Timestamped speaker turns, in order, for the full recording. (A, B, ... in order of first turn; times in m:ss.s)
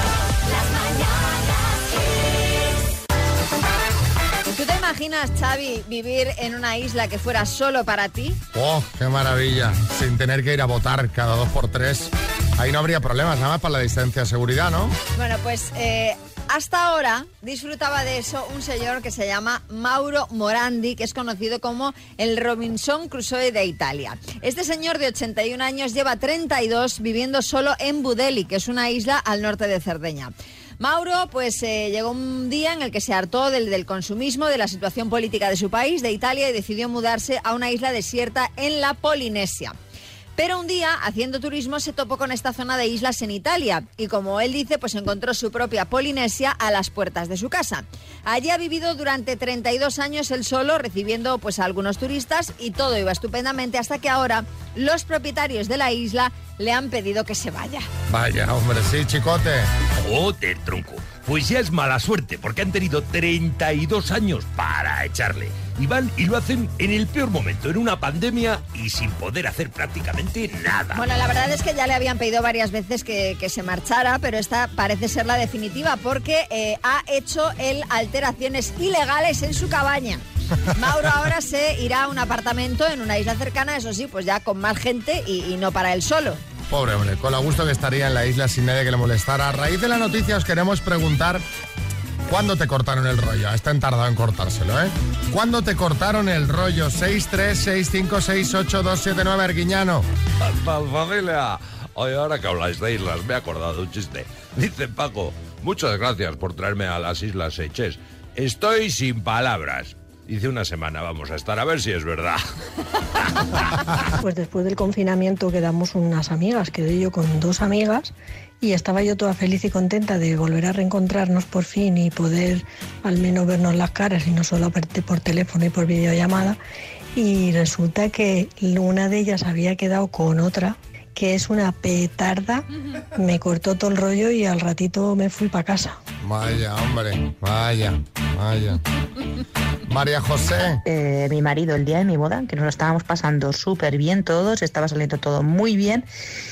0:04.5-0:08.4 A
0:08.5-0:15.0 B
0:15.1-0:39.7 A
0:40.4-0:57.9 A
0:58.1-0:59.7 B
1:00.0-1:11.0 C
1:10.9-1:20.2 A
1:20.7-1:26.4 A
1:26.7-1:31.4 B
1:32.3-1:40.0 B
1:40.4-1:52.4 C
1:54.2-2:06.6 D
2:07.2-2:16.0 D
2:16.2-2:18.8 B
2:19.8-2:20.8 B
2:20.8-2:26.1 E